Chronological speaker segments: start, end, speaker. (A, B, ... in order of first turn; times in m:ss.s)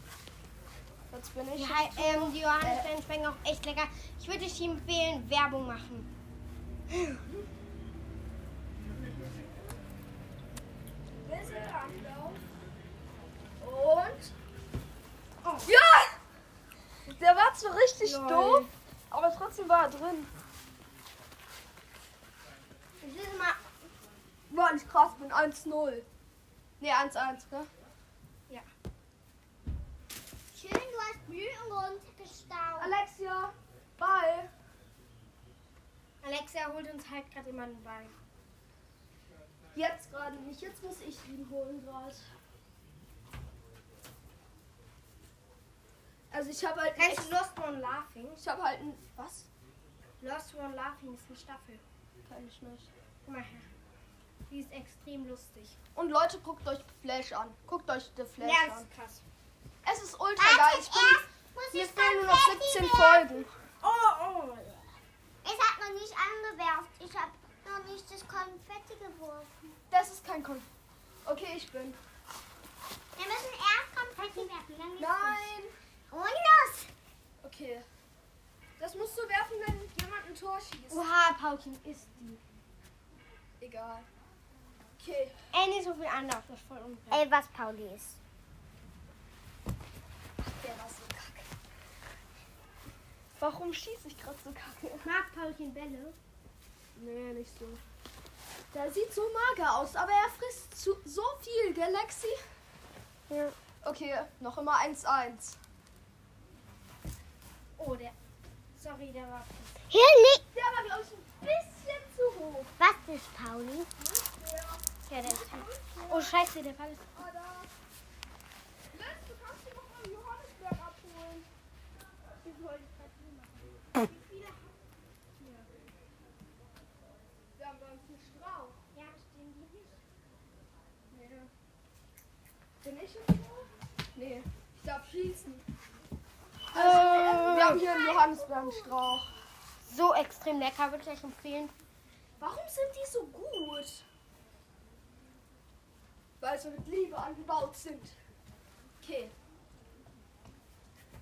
0:01.1-0:02.9 A
0:01.6-0:06.1 B
0:11.2-0:12.4 A
0:13.6-0:14.3 A
0:15.4-0:15.7 B
0:15.6-0:16.1 A
0:17.1-0:20.3 A
0:18.0-0:18.7 B
0:23.0-0:23.6 B
0:24.5-0:26.1 A
0:26.8-0:27.7 A
0:30.5-0:32.9 C
0:32.8-0:34.5 A
0:36.2-0:38.1 B
0:39.8-0:42.3 A
0:46.3-0:47.4 A
0:47.0-0:48.4 B
0:48.4-0:49.5 A
0:50.2-0:51.8 B
0:52.3-0:52.9 A
0:53.2-0:53.7 B
0:54.5-0:55.8 B
0:56.0-0:58.9 A
0:58.4-0:59.2 B
0:59.8-1:03.5 A
1:00.4-1:03.5 C
1:03.8-1:04.9 B
1:05.4-1:09.6 C
1:09.9-1:10.7 A
1:11.2-1:12.0 A
1:13.2-1:15.5 C
1:15.0-1:15.7 A
1:16.1-1:16.9 C
1:17.4-1:17.8 A
1:18.8-1:21.0 A
1:20.9-1:22.4 B
1:23.6-1:24.1 A
1:25.0-1:25.4 A
1:25.5-1:27.2 B
1:27.1-1:28.2 C
1:30.4-1:31.5 A
1:33.4-1:35.1 A
1:35.0-1:36.2 B
1:37.0-1:37.8 A
1:38.7-1:42.4 A
1:43.8-1:45.6 A
1:47.8-1:48.1 B
1:48.8-1:49.8 B
1:49.9-1:50.4 C
1:50.5-1:52.7 A
1:52.8-1:53.9 C
1:54.0-1:56.3 A
1:55.1-1:57.1 B
1:57.1-1:57.7 A
1:58.9-2:01.5 A
2:02.5-2:04.8 B
2:02.5-2:02.8 A
2:07.6-2:08.8 A
2:08.9-2:10.0 B
2:11.1-2:11.5 A
2:12.8-2:15.6 A
2:16.7-2:17.9 B
2:16.7-2:19.3 A
2:17.1-2:18.9 C
2:19.8-2:21.7 B
2:22.4-2:24.0 A
2:26.4-2:28.2 A
2:29.0-2:29.3 A